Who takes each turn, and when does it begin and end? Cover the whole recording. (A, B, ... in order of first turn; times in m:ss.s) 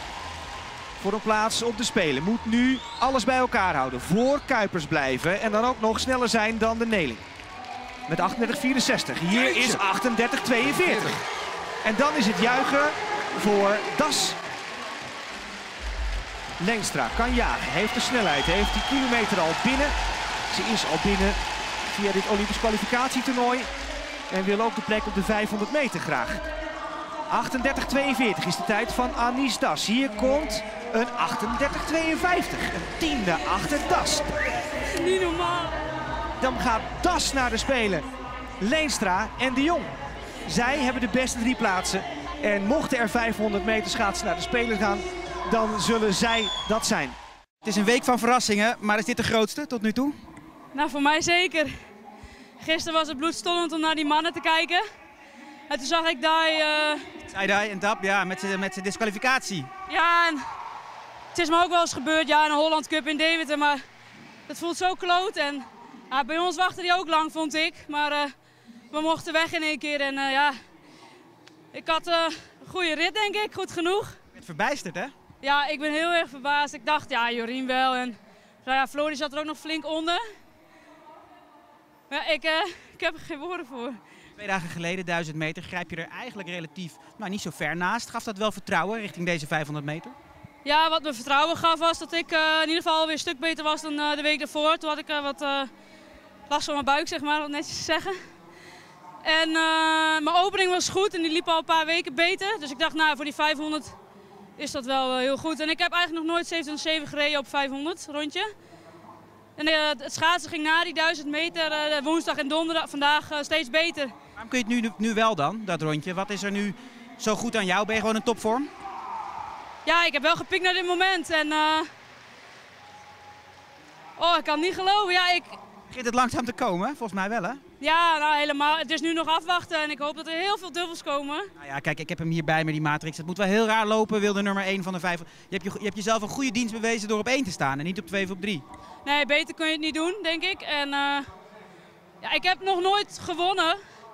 0:01.0-0:07.2 A
0:08.1-0:11.2 A
0:11.8-0:14.4 A
0:16.6-0:19.9 A
0:20.5-0:23.7 A
0:24.3-0:26.4 A
0:27.3-0:34.3 A
0:34.8-0:35.8 B
0:36.4-0:38.1 A
0:38.6-0:39.9 A
0:40.4-0:47.2 A
0:47.6-0:50.2 C
0:50.7-0:51.7 B
0:52.6-0:54.8 B
0:55.7-0:57.1 B
0:57.3-0:59.7 C
0:59.9-1:00.4 B
1:01.3-1:03.8 B
1:04.5-1:08.3 B
1:08.9-1:10.6 B
1:11.7-1:14.2 B
1:14.3-1:15.1 C
1:15.4-1:20.2 B
1:22.1-1:24.0 B
1:24.4-1:30.2 C
1:30.6-1:35.7 B
1:36.5-1:38.2 B
1:39.2-1:43.9 B
1:44.6-1:48.5 B
1:49.6-1:54.1 B
1:54.4-1:58.7 C
1:59.8-2:01.9 B
2:04.2-2:05.6 B
2:05.9-2:07.6 C
2:07.8-2:11.5 B
2:11.6-2:18.6 C
2:19.0-2:21.3 B
2:22.2-2:23.8 B